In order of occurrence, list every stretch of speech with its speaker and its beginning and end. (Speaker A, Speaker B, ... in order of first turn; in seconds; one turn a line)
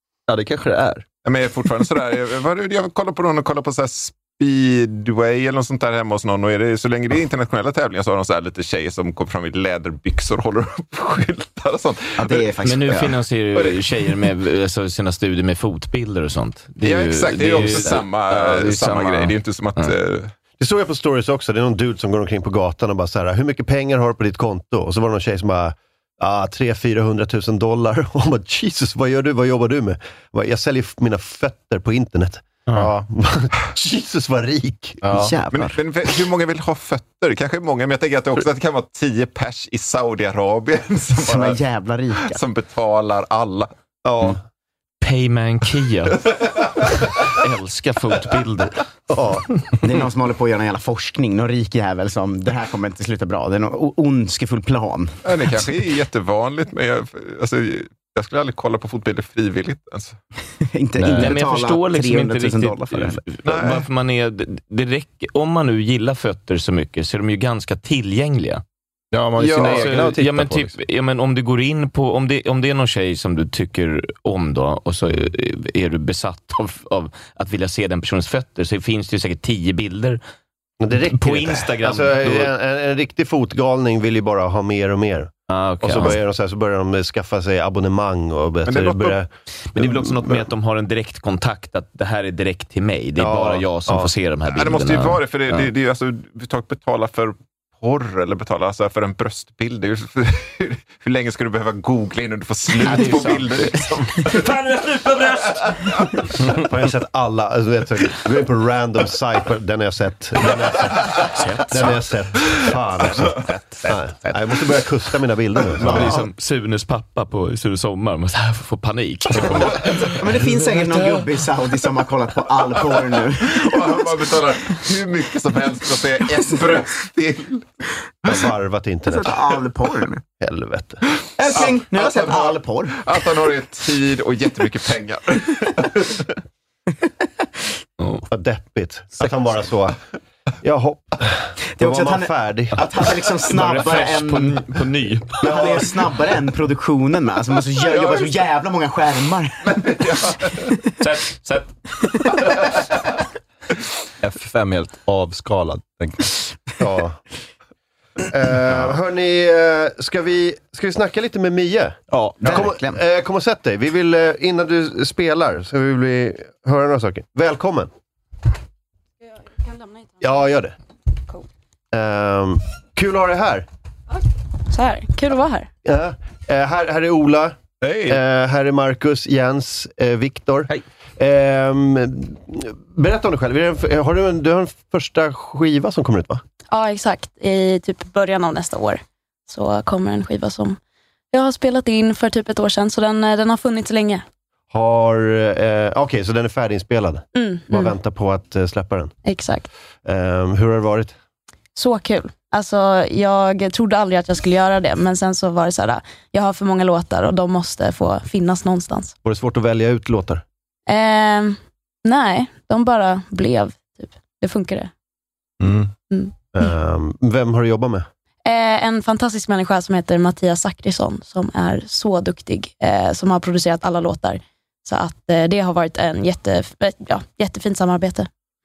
Speaker A: 0.3-1.1
Speaker B: 1.2-12.5
Speaker C: 12.2-13.2
Speaker D: 12.6-19.9
Speaker B: 16.8-20.3
Speaker E: 20.6-35.2
Speaker A: 32.7-33.1
Speaker A: 35.0-35.4
Speaker C: 35.1-35.8
Speaker B: 35.5-41.6
Speaker C: 41.2-42.4
Speaker B: 42.2-43.7
Speaker E: 44.0-44.4
Speaker D: 45.0-46.2
Speaker D: 47.3-48.8
Speaker E: 49.1-49.5
Speaker C: 49.8-55.2
Speaker B: 55.2-60.2
Speaker C: 60.7-63.2
Speaker D: 61.1-68.6
Speaker B: 63.5-63.8
Speaker A: 69.1-70.8
Speaker D: 69.4-80.2
Speaker B: 69.5-69.8
Speaker E: 80.8-90.5
Speaker D: 81.1-82.5
Speaker D: 85.5-86.2
Speaker B: 88.7-89.2
Speaker D: 89.7-95.7
Speaker E: 93.2-94.1
Speaker B: 94.5-104.7
Speaker D: 102.8-104.4
Speaker B: 105.2-106.3
Speaker E: 106.5-116.2
Speaker D: 115.8-120.2
Speaker C: 120.1-124.3
Speaker B: 123.4-127.7
Speaker C: 126.6-126.8
Speaker E: 128.3-129.4
Speaker C: 129.1-130.2
Speaker E: 130.3-131.0
Speaker C: 131.4-133.0
Speaker B: 131.4-136.2
Speaker E: 138.3-140.0
Speaker E: 140.6-142.9
Speaker C: 141.8-144.7
Speaker D: 143.5-145.7
Speaker C: 145.4-150.0
Speaker B: 147.9-148.3
Speaker B: 149.7-150.7
Speaker D: 151.0-151.7
Speaker A: 154.2-156.3
Speaker E: 156.8-157.2
Speaker E: 158.3-167.9
Speaker A: 162.1-162.6
Speaker C: 162.4-163.0
Speaker E: 170.2-170.8
Speaker E: 171.9-173.7
Speaker F: 174.7-175.7
Speaker E: 175.8-177.6
Speaker A: 177.8-178.2
Speaker E: 178.1-186.4
Speaker F: 186.7-190.8
Speaker F: 191.3-194.2
Speaker E: 194.7-199.1
Speaker F: 197.3-197.9
Speaker F: 199.2-199.7
Speaker E: 200.1-201.2
Speaker F: 201.8-209.2
Speaker E: 209.2-210.4
Speaker F: 210.9-214.9
Speaker A: 215.6-215.9
Speaker E: 216.5-218.1
Speaker F: 218.4-228.3